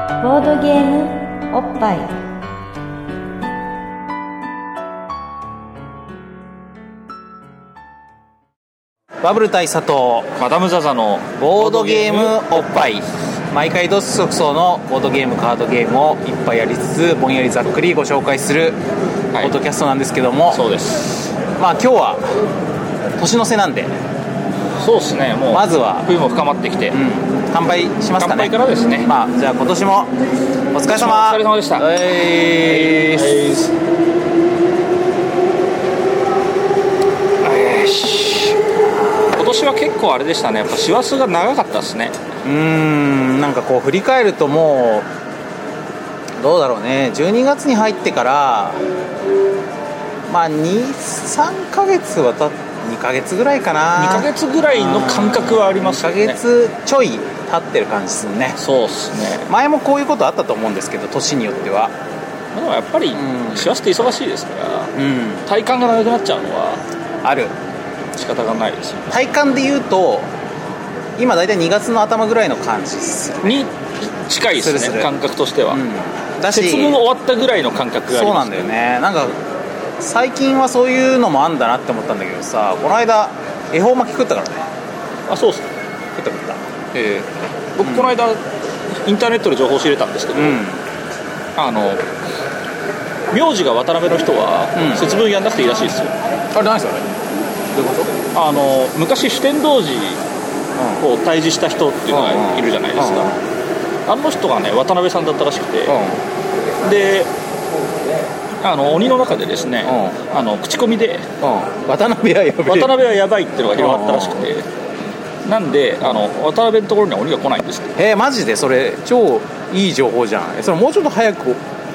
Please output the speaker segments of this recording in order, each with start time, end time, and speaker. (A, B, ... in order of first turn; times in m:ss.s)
0:00.2-0:02.1 A
0:09.2-0:10.3 B
0:10.4-0:12.4 C
0:11.4-0:18.8 B
0:19.4-0:20.6 B
0:20.5-0:21.0 C
0:21.6-0:22.3 B
0:23.2-0:23.9 B
0:24.8-0:27.0 C
0:25.5-0:26.1 B
0:26.9-0:28.5 B
0:28.2-0:29.1 C
0:29.0-0:30.1 B
0:30.7-0:33.6 B
0:30.9-0:31.9 C
0:32.6-0:33.7 C
0:37.4-0:38.6 C
0:39.0-0:39.4 B
0:39.3-0:42.1 C
0:42.4-0:45.1 B
0:46.4-0:48.8 B
0:50.3-0:58.6 B
0:54.0-0:56.4 C
0:58.6-0:59.5 C
0:59.5-1:01.9 B
1:02.5-1:04.9 C
1:03.1-1:03.7 B
1:04.9-1:05.4 B
1:05.4-1:06.8 C
1:07.2-1:07.5 B
1:08.2-1:09.1 C
1:09.1-1:10.3 B
1:11.2-1:13.6 B
1:13.4-1:15.8 C
1:14.5-1:15.1 B
1:15.7-1:17.0 B
1:16.5-1:18.7 C
1:18.1-1:19.4 B
1:20.0-1:24.6 B
1:25.3-1:25.6 C
1:26.2-1:26.6 B
1:26.9-1:27.2 C
1:27.8-1:28.4 C
1:27.8-1:28.2 B
1:29.0-1:30.6 C
1:30.3-1:30.8 B
1:31.6-1:32.0 C
1:33.3-1:36.1 C
1:34.7-1:35.0 B
1:36.5-1:37.1 B
1:37.7-1:38.1 B
1:38.3-1:40.2 C
1:40.8-1:41.0 B
1:41.0-1:43.4 C
1:42.1-1:43.4 B
1:44.0-1:46.0 C
1:45.9-1:46.2 B
1:46.8-1:47.3 C
1:48.6-1:51.3 C
1:49.8-1:50.2 B
1:51.4-1:53.0 B
1:52.6-1:54.7 C
1:53.7-1:54.4 B
1:55.4-1:58.0 C
1:58.0-2:01.6 B